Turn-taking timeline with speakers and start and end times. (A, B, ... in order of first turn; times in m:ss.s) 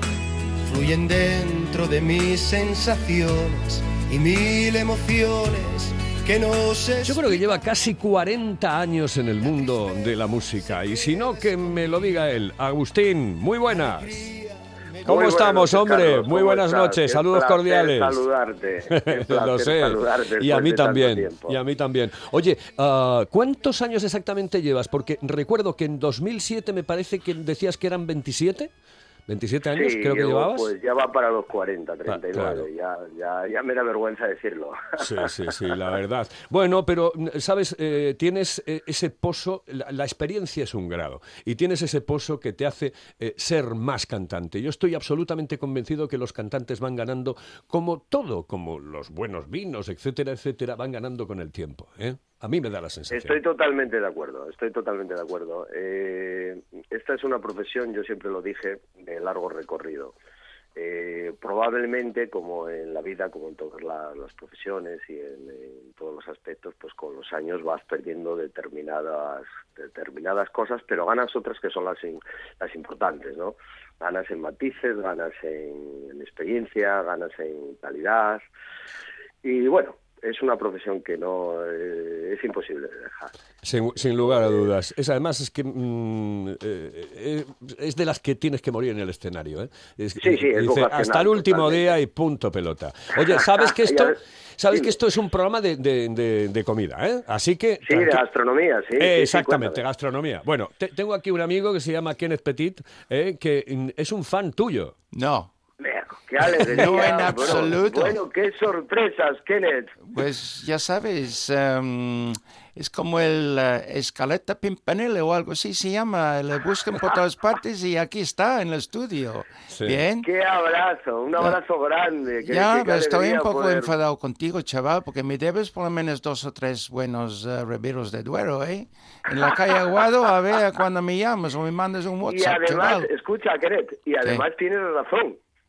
0:00.6-0:07.4 A
0:07.0-0:14.2 B
0:10.6-0:11.8 A
0:13.7-0:15.4 A
0:15.0-0:18.2 B
0:15.0-0:21.6 C
0:18.9-0:28.7 B
0:29.3-0:30.7 B
0:29.7-0:35.3 C
0:32.1-0:32.7 B
0:35.0-0:53.4 B
0:53.1-1:00.1 C
1:00.8-1:18.4 C
1:19.4-1:23.3 C
1:23.6-1:38.2 B
1:30.2-1:31.9 C
1:33.4-1:34.2 C
1:34.7-1:34.9 C
1:37.8-1:39.8 C
1:39.0-1:44.9 B
1:45.1-1:45.5 D
1:45.8-1:49.9 C
1:46.4-1:48.2 D
1:50.0-2:00.3 D
1:59.7-2:00.0 B
2:00.2-2:03.9 C
2:02.4-2:13.1 D
2:12.2-2:15.4 C